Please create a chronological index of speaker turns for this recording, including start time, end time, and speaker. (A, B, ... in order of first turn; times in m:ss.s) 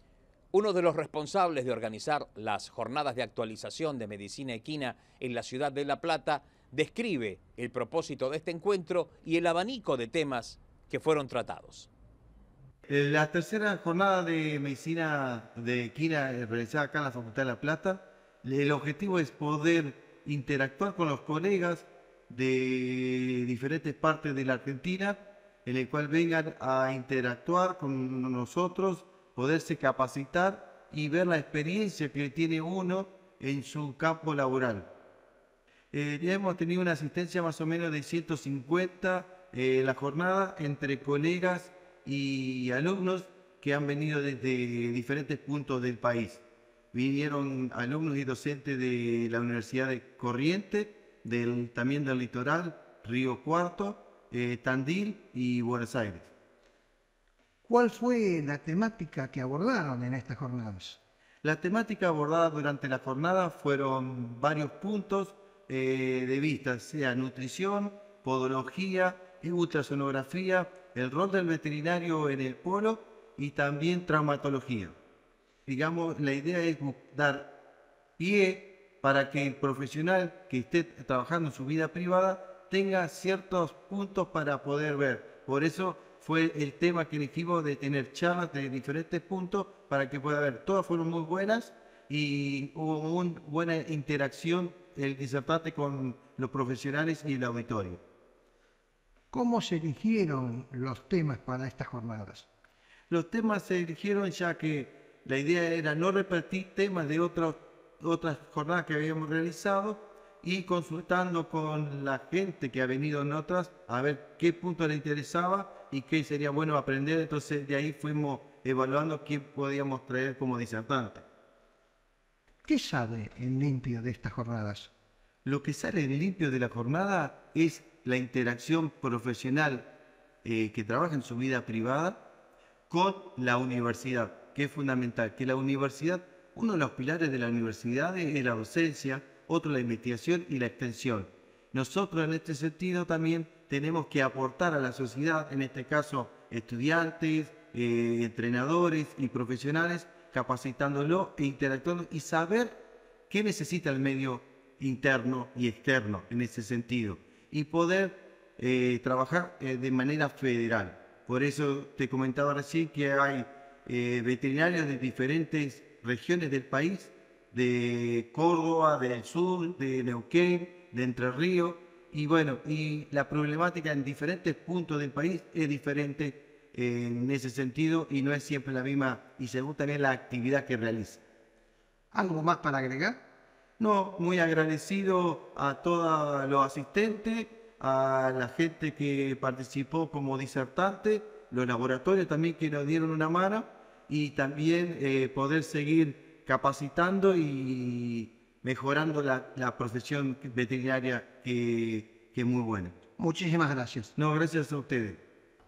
0:00.5-0:11.9 A
0:12.9-0:34.9 B
0:35.9-0:56.3 B
0:57.6-1:01.0 C
1:01.4-1:15.0 B
1:15.7-1:17.5 B
1:18.2-1:38.0 B
1:39.3-1:42.5 C
1:43.1-2:01.3 B
2:02.6-2:04.9 C
2:05.4-2:09.9 B
2:10.4-2:12.2 B
2:12.9-2:32.8 B
2:33.3-3:01.2 B
3:02.1-3:03.2 C
3:03.8-3:23.0 B
3:23.2-3:24.1 C
3:24.2-3:25.2 B